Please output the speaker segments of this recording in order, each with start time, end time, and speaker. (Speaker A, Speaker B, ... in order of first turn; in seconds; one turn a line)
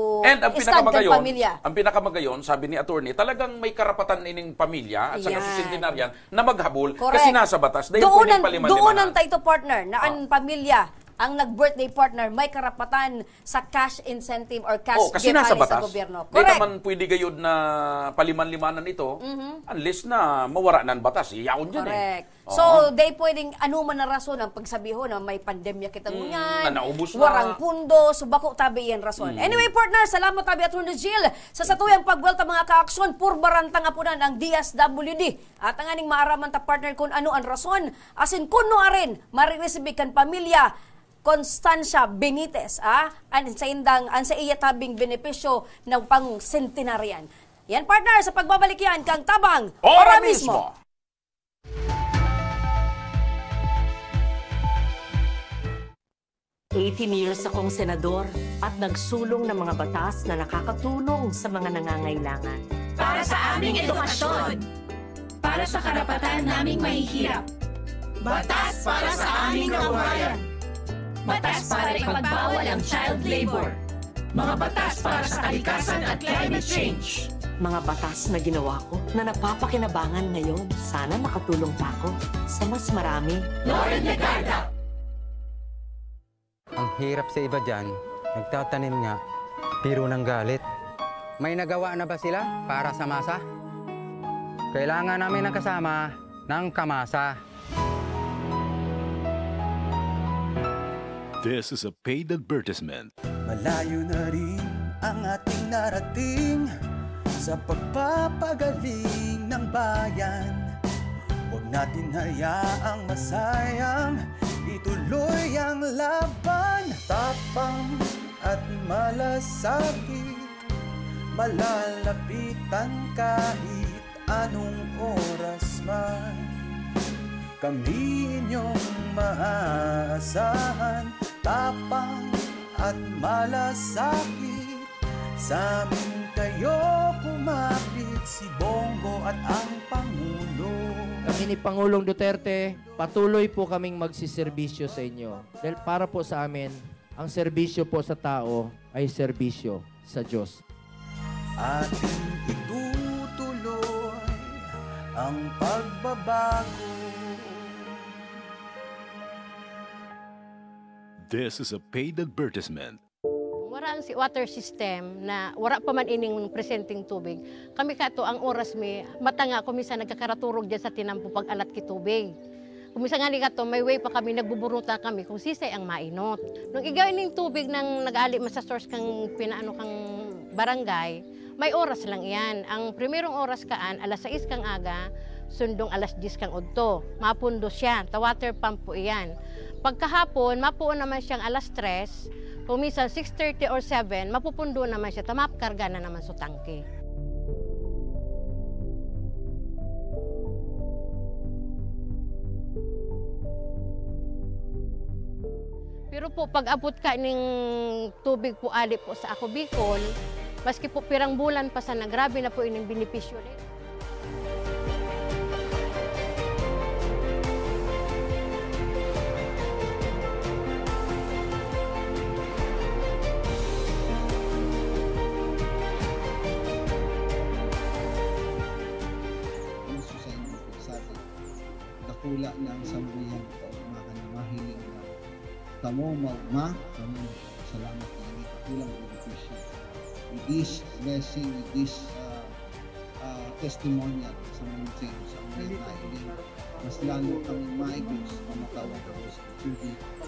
Speaker A: 0.3-9.2
Speaker B: 0.5-1.6
Speaker B: 5.1-6.0
Speaker B: 7.0-7.4
Speaker B: 8.0-16.7
Speaker A: 15.0-19.2
Speaker B: 19.2-19.6
Speaker A: 19.7-22.8
Speaker B: 21.8-40.7
Speaker A: 26.1-27.6
Speaker A: 29.2-29.7
Speaker B: 41.2-50.6
Speaker A: 49.8-50.7
Speaker C: 56.8-62.6
Speaker D: 63.0-64.7
Speaker D: 65.4-67.4
Speaker D: 68.2-70.4
Speaker D: 71.2-73.8
Speaker D: 74.3-77.3
Speaker C: 77.6-83.4
Speaker D: 83.7-84.6
Speaker E: 86.8-89.2
Speaker E: 89.8-90.6
Speaker E: 91.4-93.4
Speaker E: 94.7-97.4
Speaker F: 101.4-103.1
Speaker G: 103.5-106.7
Speaker G: 107.4-110.7
Speaker G: 111.5-120.5
Speaker G: 121.4-126.6
Speaker G: 127.6-134.9
Speaker G: 135.4-141.3
Speaker H: 141.3-150.6
Speaker G: 142.7-143.4
Speaker G: 151.6-154.7
Speaker G: 155.2-157.9
Speaker F: 161.3-163.0
Speaker I: 163.6-172.3
Speaker I: 173.0-185.0
Speaker I: 185.6-189.3
Speaker I: 189.8-196.8
Speaker I: 206.1-210.0
Speaker I: 210.7-213.6
Speaker J: 229.9-231.2
Speaker J: 232.1-235.1
Speaker J: 235.8-239.7
Speaker J: 240.3-242.5
Speaker J: 243.2-250.0